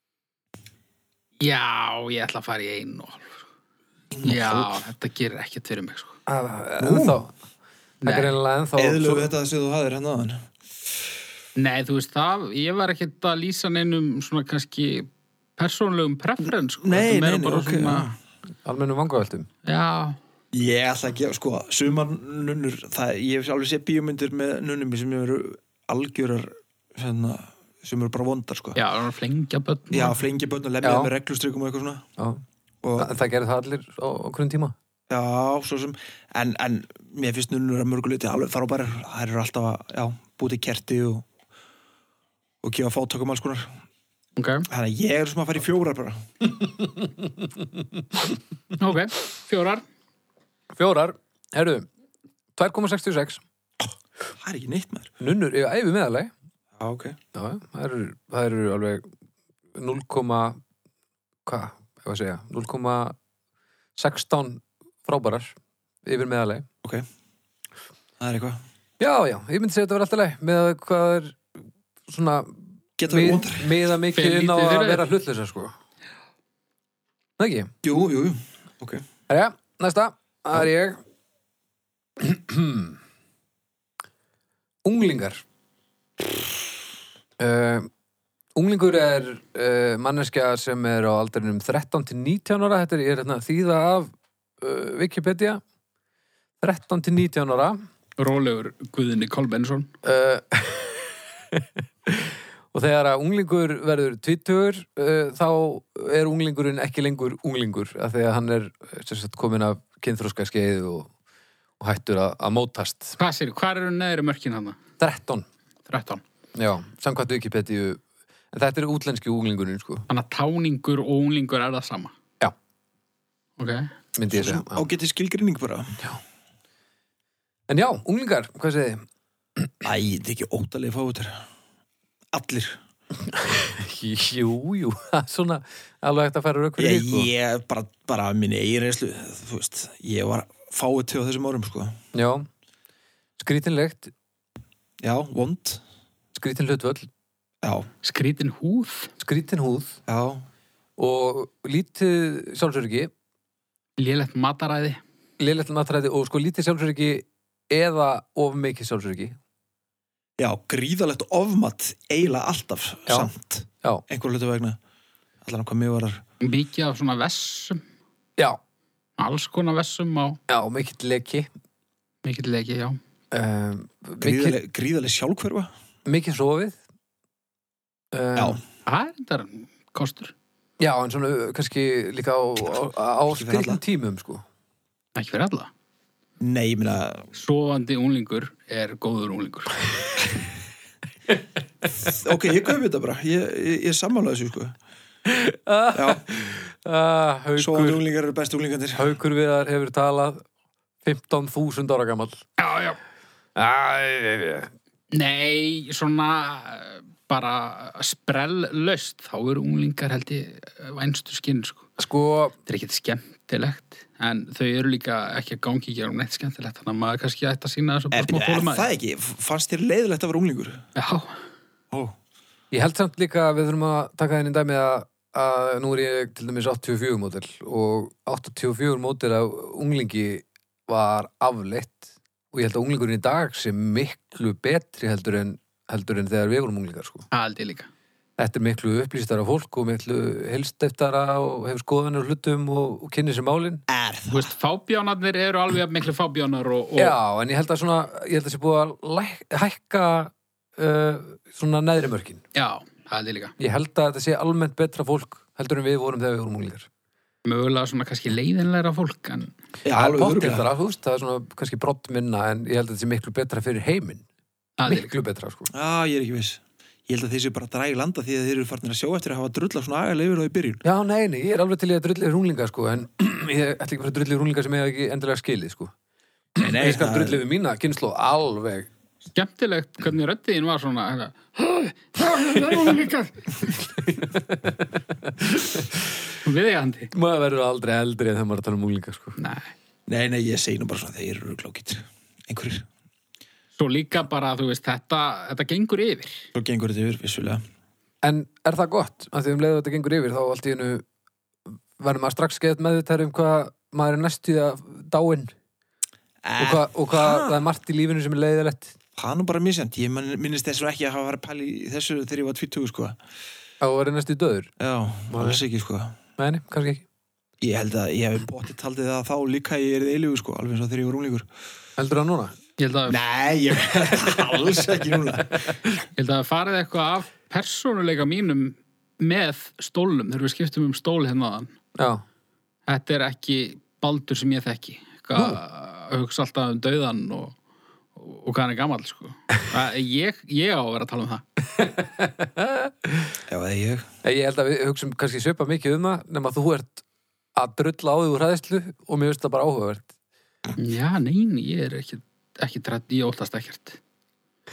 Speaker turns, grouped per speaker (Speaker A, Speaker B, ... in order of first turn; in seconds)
Speaker A: 1.4-3.4, 4.2-6.2, 8.0-8.3, 11.6-18.1, 19.6-20.2, 28.8-30.2, 44.4-44.7, 48.8-49.8, 74.1-75.0, 98.2-99.9, 113.2-114.8, 115.9-116.2, 120.1-122.1, 123.6-123.9, 148.0-149.1, 154.0-155.0, 166.4-167.8, 169.2-170.4, 172.2-173.0, 178.8-180.3, 185.2-185.7, 187.3-189.8, 202.6-203.0, 205.1-211.8, 212.7-218.9, 221.0-221.4, 237.3-237.9, 244.3-247.2, 252.6-253.5, 257.4-259.5, 264.8-265.1, 279.3-283.7, 286.4-287.1, 289.4-289.7, 293.8-296.4, 322.8-323.2, 326.2-331.7, 332.9-337.6, 338.2-341.4, 350.8-354.0
Speaker B: 4.2-4.8, 6.8-7.2, 8.8-10.5, 16.8-18.1, 20.5-28.8, 29.9-32.0, 32.8-33.1, 35.1-41.2, 42.6-43.8, 44.7-46.2, 54.4-55.1, 56.8-57.2, 68.2-68.6, 73.0-73.8, 77.8-79.0, 124.3-126.0, 129.8-131.4, 132.3-132.8, 136.8-142.0, 145.0-145.8, 147.6-147.9, 150.1-150.5, 160.4-164.8, 165.4-166.2, 174.2-175.7, 178.4-178.6, 183.3-183.8, 186.4-187.3, 192.0-194.8, 195.9-196.2, 197.6-199.2, 218.1-220.8, 243.9-244.5, 259.9-260.7, 265.7-270.8, 276.6-277.4, 290.1-292.9, 296.5-297.6, 306.4-307.6, 309.2-313.2, 314.8-316.2, 317.6-321.5, 323.1-325.7, 343.5-344.1
Speaker C: 6.3-7.3, 8.1-9.3, 18.6-19.5, 30.8-31.1, 33.0-34.8, 46.6-48.3, 50.8-51.9, 52.6-53.4, 55.2-56.3, 57.3-59.0, 59.7-60.6, 61.5-63.2, 64.0-66.7, 69.0-71.4, 72.1-75.7, 77.4-77.7, 79.3-81.0, 82.2-83.0, 84.8-85.4, 87.4-87.9, 88.5-95.6, 96.6-97.8, 100.0-111.1, 111.8-113.2, 115.0-115.5, 116.5-118.0, 118.5-120.1, 124.2-124.8, 127.7-129.1, 133.3-137.3, 142.1-142.5, 143.4-144.1, 146.3-147.1, 149.2-150.0, 151.0-153.1, 155.4-159.4, 170.5-171.5, 173.3-174.6, 176.1-176.8, 178.1-178.6, 180.8-184.4, 195.3-198.0, 199.0-200.4, 201.0-202.4, 203.6-204.7, 212.0-212.6, 222.7-237.3, 238.4-243.8, 247.0-252.4, 253.6-256.9, 259.9-264.2, 264.9-265.7, 270.8-275.9, 276.6-278.9, 282.5-282.8, 283.9-286.1, 287.1-289.4, 298.2-301.0, 302.0-305.5, 306.6-309.0, 313.8-314.7, 315.3-315.6, 316.4-317.1, 322.0-322.6, 332.0-332.2, 341.8-343.4, 344.2-347.0, 347.6-350.1